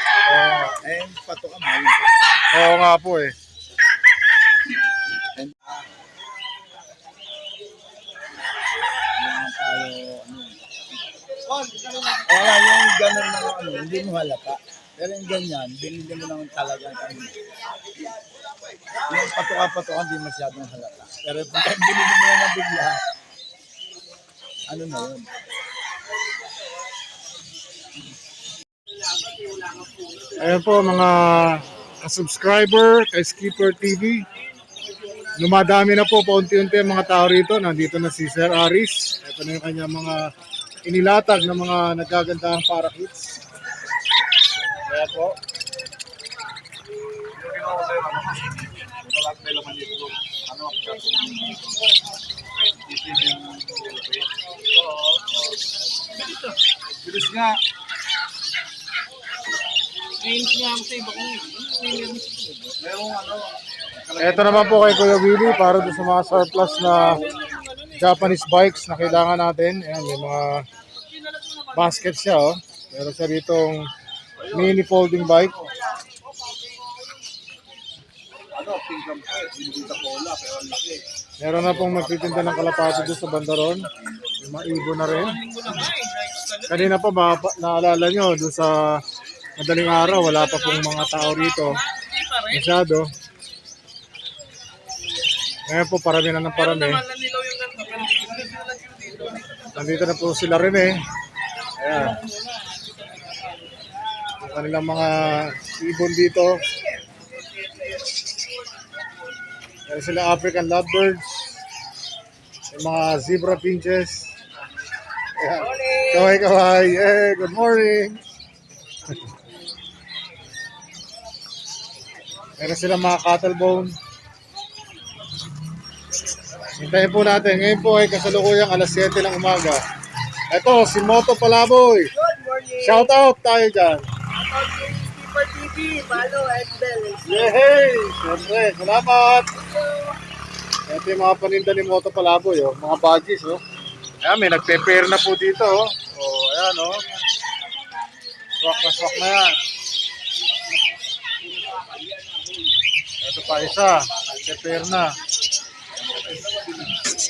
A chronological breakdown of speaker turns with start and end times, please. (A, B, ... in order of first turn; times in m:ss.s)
0:00.3-0:00.8 A
0:00.8-0:02.2 B
0:02.5-0:03.3 A
0:05.4-0:05.7 B
0:09.2-0:10.8 B
0:11.6-0:17.3 B
0:19.1-0:23.0 B
0:24.7-0:25.3 B
0:30.4-0:34.2 A
0:35.4-0:40.2 A
0:40.8-0:43.4 A
0:44.9-0:45.4 A
0:47.4-0:51.6 B
0:52.8-0:54.3 B
0:55.2-0:55.6 B
0:57.0-0:57.6 B
1:01.6-1:06.6 B
1:04.2-1:07.2 A
1:07.9-1:10.6 A
1:11.7-1:13.9 A
1:14.5-1:15.6 A
1:18.5-1:21.0 B
1:21.4-1:23.9 A
1:21.6-1:24.3 B
1:24.4-1:25.4 A
1:26.6-1:29.0 A
1:29.6-1:31.8 A
1:32.4-1:33.1 A
1:35.7-1:37.1 A
1:39.7-1:40.9 A
1:41.8-1:42.2 A
1:44.4-1:46.6 A
1:49.9-1:51.6 A
1:52.7-1:54.3 A
1:55.4-1:58.2 A
1:55.7-1:56.2 C
2:02.6-2:03.9 A
2:06.8-2:09.8 A
2:10.5-2:12.1 A
2:12.1-2:13.1 C
2:12.8-2:14.0 A
2:14.3-2:17.5 C
2:17.2-2:19.5 A
2:20.9-2:23.6 A
2:24.2-2:27.0 A
2:28.6-2:29.6 A
2:33.2-2:35.1 A